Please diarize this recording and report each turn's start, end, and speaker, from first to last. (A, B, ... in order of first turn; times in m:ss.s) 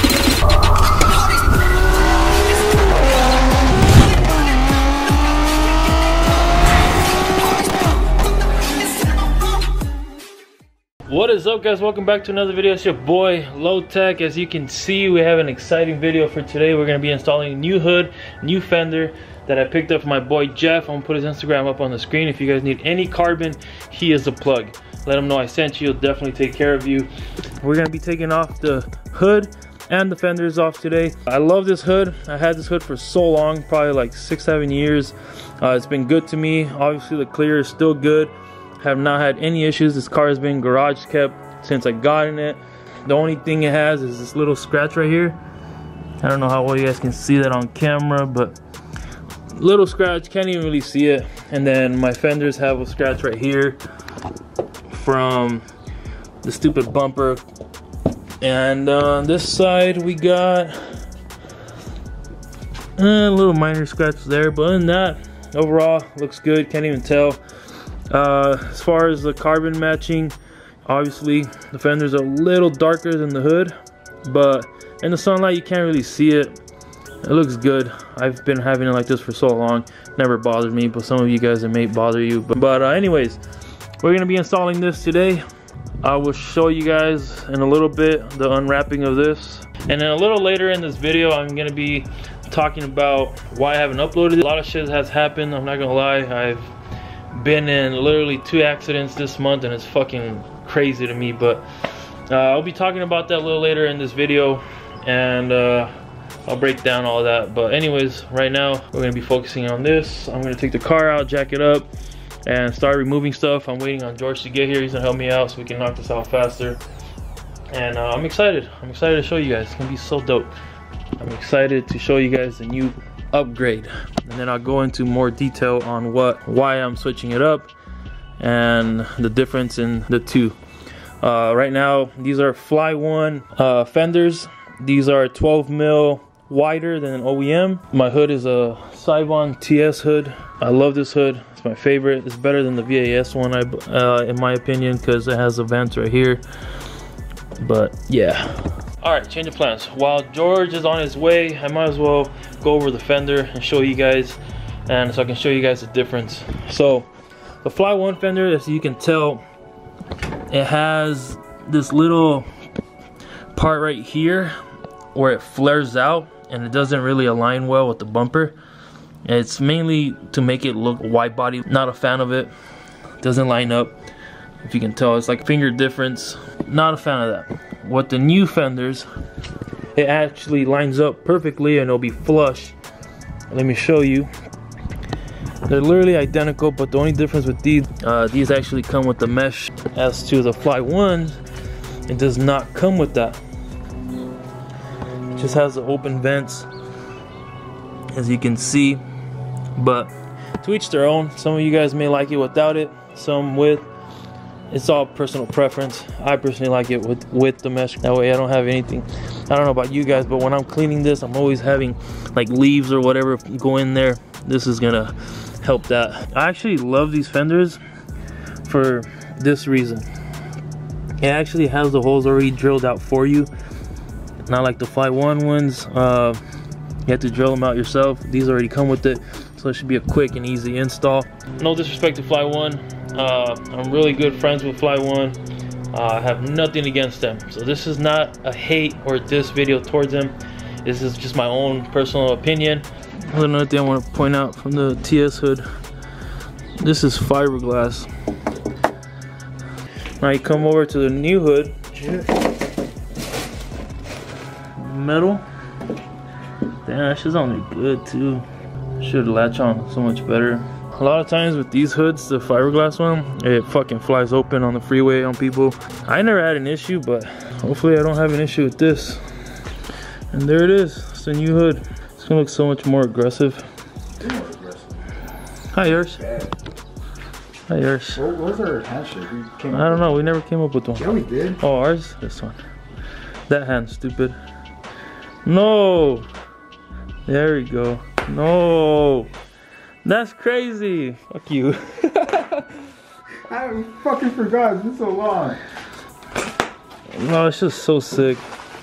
0:11.0-0:45.4 A
0:46.2-0:48.6 A
0:49.5-0:53.8 A
0:54.9-0:55.6 A
0:56.4-0:57.4 A
0:58.4-1:00.9 A
1:03.0-1:07.4 A
1:08.1-1:16.5 A
1:17.2-1:23.4 A
1:24.0-1:25.4 A
1:26.0-1:36.7 A
1:37.3-1:45.9 A
1:46.4-1:51.9 A
1:52.4-1:56.8 A
1:57.7-2:00.5 A
2:01.2-2:07.7 A
2:08.4-2:10.6 A
2:11.2-2:26.4 A
2:27.6-2:37.1 A
2:37.6-2:39.4 A
2:40.5-2:42.5 A
2:43.5-2:44.5 A
2:45.1-2:48.5 A
2:49.2-2:52.5 A
2:53.2-2:54.0 A
2:54.6-2:59.1 A
2:59.9-3:02.8 A
3:03.5-3:04.3 A
3:05.6-3:11.4 A
3:12.1-3:13.4 A
3:15.3-3:16.7 A
3:18.1-3:19.0 A
3:19.8-3:23.9 A
3:24.7-3:37.8 A
3:38.6-3:40.1 A
3:41.2-3:43.5 A
3:44.4-3:46.4 A
3:47.0-3:55.4 A
3:55.9-4:05.6 A
4:06.8-4:08.1 A
4:10.2-4:11.8 A
4:11.9-4:12.3 B
4:14.7-4:15.4 A
4:16.8-4:18.4 A
4:19.0-4:29.2 A
4:30.3-4:33.7 A
4:34.2-4:35.0 B
4:35.7-4:36.2 A
4:36.1-4:36.6 B
4:37.7-4:38.2 A
4:38.2-4:40.1 B
4:39.7-4:41.1 A
4:41.0-4:41.6 B
4:41.6-4:42.6 A
4:43.5-4:44.4 A
4:45.4-4:46.3 A
4:47.2-4:49.3 A
4:50.0-4:52.7 A
4:53.5-4:55.6 B
4:57.1-4:58.4 A